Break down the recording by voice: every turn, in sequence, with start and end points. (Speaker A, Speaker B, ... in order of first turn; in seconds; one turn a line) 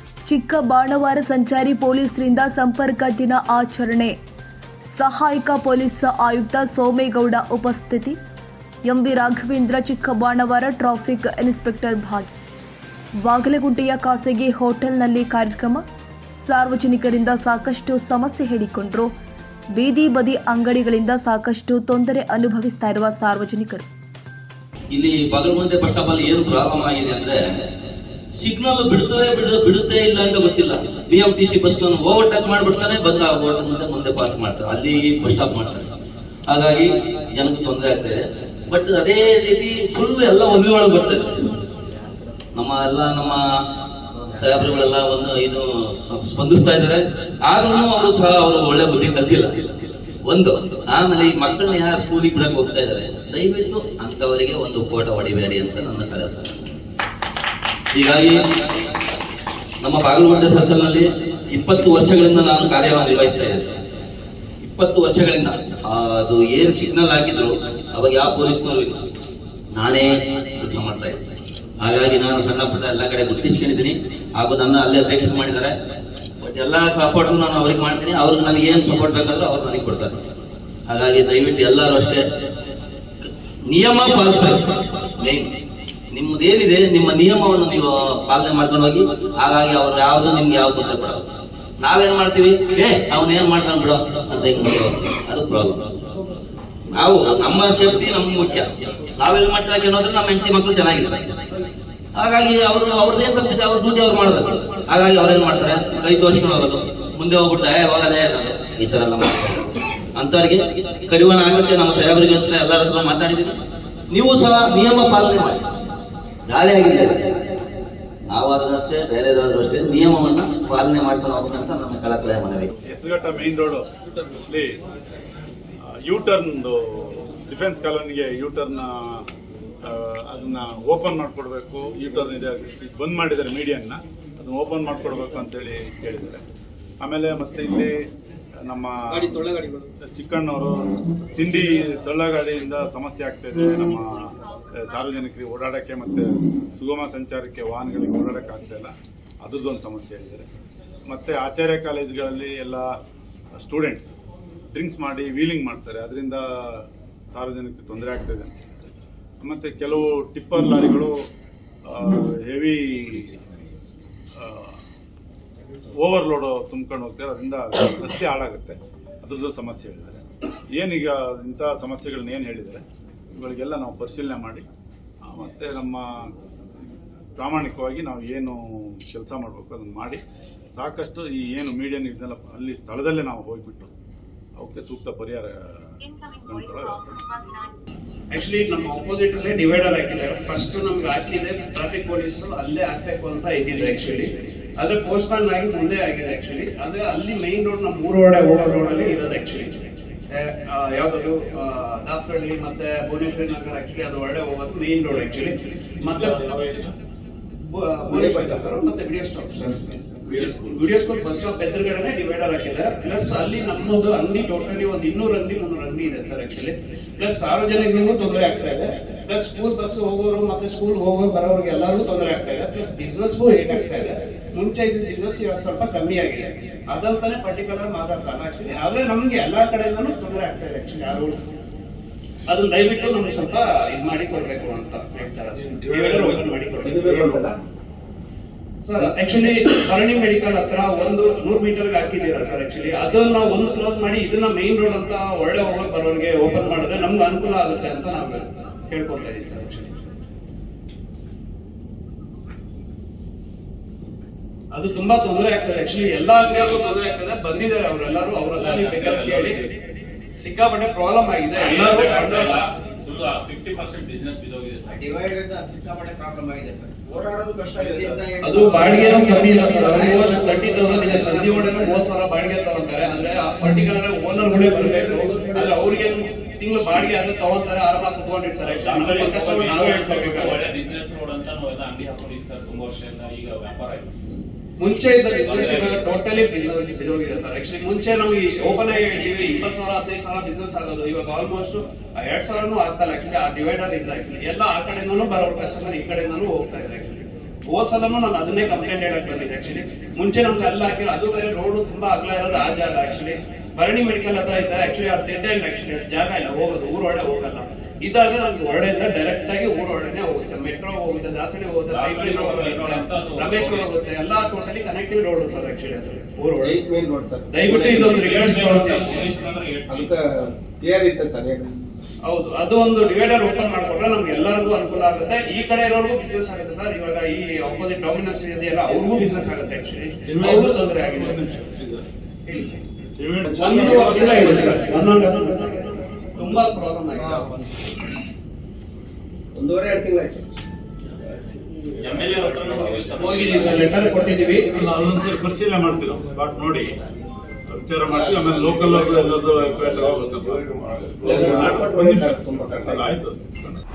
Speaker A: 0.3-4.2
Speaker A: 4.8-8.2
Speaker A: 8.8-12.3
Speaker A: 13.2-19.1
Speaker A: 19.7-23.9
Speaker B: 24.9-27.7
Speaker B: 28.4-35.9
Speaker B: 36.5-41.7
Speaker B: 42.5-43.4
Speaker B: 44.3-49.6
Speaker B: 50.2-56.8
Speaker B: 57.9-58.5
Speaker B: 59.8-63.8
Speaker B: 64.6-69.0
Speaker B: 69.7-71.3
Speaker B: 71.8-75.8
Speaker B: 76.4-80.2
Speaker B: 80.9-82.3
Speaker B: 83.7-85.5
Speaker B: 86.1-91.3
Speaker B: 91.8-96.2
Speaker B: 96.9-101.4
Speaker B: 102.2-113.6
Speaker B: 114.1-115.7
Speaker B: 116.5-117.5
Speaker B: 118.3-122.7
Speaker C: 122.8-124.8
Speaker C: 125.9-129.3
Speaker C: 129.8-136.4
Speaker C: 137.0-138.1
Speaker C: 138.6-150.5
Speaker D: 139.5-139.8
Speaker C: 151.1-152.9
Speaker C: 153.6-154.1
Speaker C: 154.7-158.6
Speaker C: 159.4-161.3
Speaker C: 161.9-163.4
Speaker C: 164.4-164.8
Speaker C: 166.0-174.7
Speaker C: 175.3-176.3
Speaker C: 177.4-180.2
Speaker C: 180.8-183.9
Speaker C: 184.6-187.5
Speaker E: 188.3-206.9
Speaker F: 206.1-206.9
Speaker E: 207.6-231.4
Speaker D: 208.1-208.7
Speaker D: 209.6-210.1
Speaker F: 210.3-210.8
Speaker E: 232.5-237.2
Speaker D: 236.8-237.6
Speaker E: 238.8-250.1
Speaker E: 254.7-259.6
Speaker F: 258.5-259.7
Speaker E: 260.3-262.7
Speaker F: 261.5-265.1
Speaker D: 264.9-271.9
Speaker E: 268.4-280.7
Speaker F: 278.7-284.1
Speaker E: 284.8-316.8
Speaker F: 285.4-286.3
Speaker F: 311.9-313.9
Speaker D: 316.6-318.3
Speaker E: 317.5-319.3
Speaker F: 318.0-320.1
Speaker D: 319.9-321.8
Speaker E: 322.3-331.5
Speaker C: 330.3-332.1
Speaker E: 332.5-332.8
Speaker C: 333.2-334.9
Speaker E: 333.5-337.7
Speaker D: 333.7-334.9
Speaker D: 339.5-340.5
Speaker F: 342.0-344.1
Speaker E: 343.4-344.7
Speaker C: 344.6-346.9
Speaker C: 347.7-353.8
Speaker F: 348.4-349.9
Speaker F: 350.9-351.3
Speaker D: 351.2-353.1